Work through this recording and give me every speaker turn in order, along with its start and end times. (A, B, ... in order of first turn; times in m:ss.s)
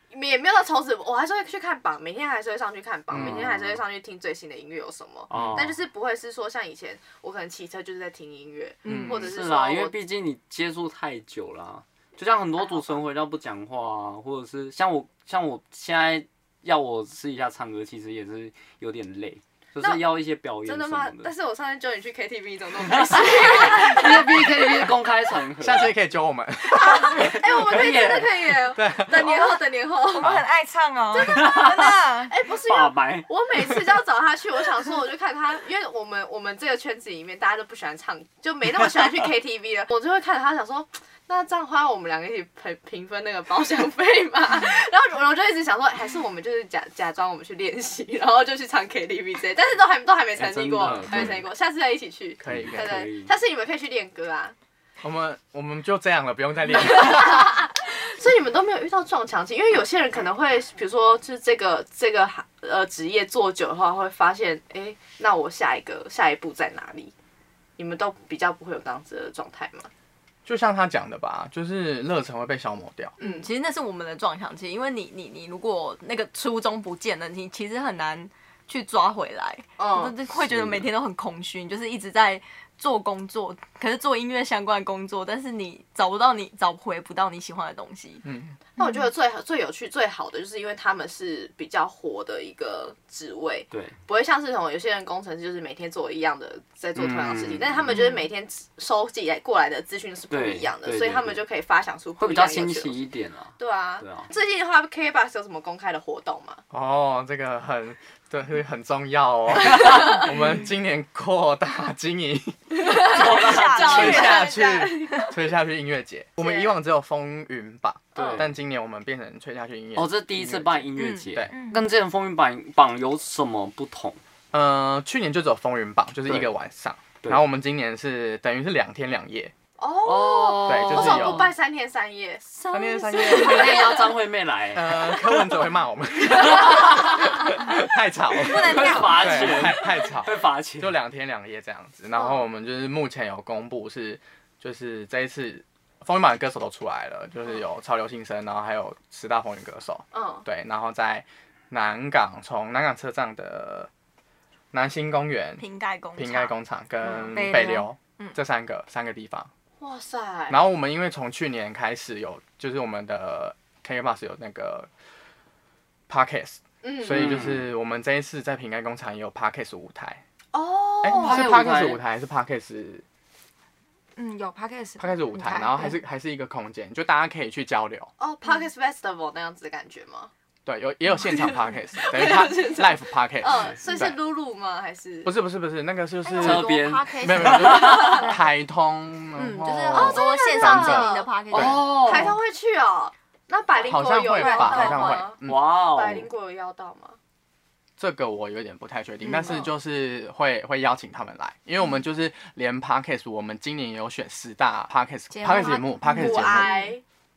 0:00.1-0:09.9 A
0:03.1-0:03.8 B
0:05.3-0:05.8 B
0:05.3-0:05.7 C
0:08.8-0:09.3 D
0:08.8-0:09.3 C
0:09.2-0:21.3 B
0:20.6-0:24.5 A
0:22.8-0:26.0 B
0:25.6-0:27.4 C
0:26.7-0:30.4 A
0:27.0-0:28.6 B
0:28.8-0:29.4 C
0:29.3-0:29.6 E
0:30.2-0:32.3 E
0:31.1-0:54.6 A
0:31.2-0:32.0 B
0:32.6-0:33.9 B
0:50.4-0:51.5 B
0:50.8-0:51.4 C
0:52.4-0:53.1 C
0:52.4-0:53.3 B
0:55.0-0:57.6 C
0:56.7-1:07.1 A
1:07.8-1:09.9 A
1:10.5-1:13.2 C
1:13.2-1:28.3 D
1:13.2-1:13.5 A
1:19.8-1:20.2 A
1:20.3-1:20.9 B
1:28.2-1:28.6 C
1:28.8-1:43.0 A
1:28.8-1:29.1 E
1:33.7-1:34.0 B
1:37.0-1:38.0 B
1:40.3-1:41.4 B
1:42.2-1:44.3 B
1:43.6-1:46.6 A
1:46.7-1:52.8 C
1:52.7-1:55.3 A
1:53.0-1:55.3 D
1:53.1-1:54.2 B
1:53.6-2:01.5 C
1:56.4-1:56.8 A
1:58.2-1:58.4 A
1:58.2-1:58.6 B
2:00.0-2:04.2 B
2:01.0-2:01.3 D
2:01.5-2:01.9 E
2:04.5-2:09.5 C
2:09.8-2:14.2 A
2:10.0-2:11.5 B
2:10.6-2:11.4 C
2:12.7-2:13.8 C
2:13.2-2:15.7 B
2:14.7-2:33.9 C
2:16.3-2:17.4 B
2:18.4-2:19.8 E
2:18.5-2:21.0 B
2:22.2-2:22.4 A
2:30.1-2:30.5 A
2:34.7-2:35.6 C
2:35.6-2:36.6 D
2:36.2-2:39.5 C
2:37.2-2:37.9 E
2:39.8-2:40.6 A
2:40.5-2:44.9 C
2:46.1-2:50.2 C
2:46.8-2:47.3 A
2:47.0-2:47.7 B
2:50.5-2:51.5 A
2:51.0-2:53.0 C
2:51.1-2:52.0 B
2:54.2-2:56.0 E
2:55.0-2:58.1 C
2:58.2-3:00.3 A
3:00.7-3:04.2 C
3:01.3-3:05.3 A
3:05.2-3:11.8 C
3:06.2-3:08.4 D
3:06.4-3:08.3 B
3:09.4-3:12.1 D
3:09.9-3:17.2 A
3:11.5-3:12.4 B
3:13.9-3:15.6 C
3:14.4-3:15.2 D
3:15.4-3:16.3 B
3:18.0-3:26.7 C
3:19.2-3:19.7 D
3:25.3-3:26.9 D
3:26.1-3:27.0 A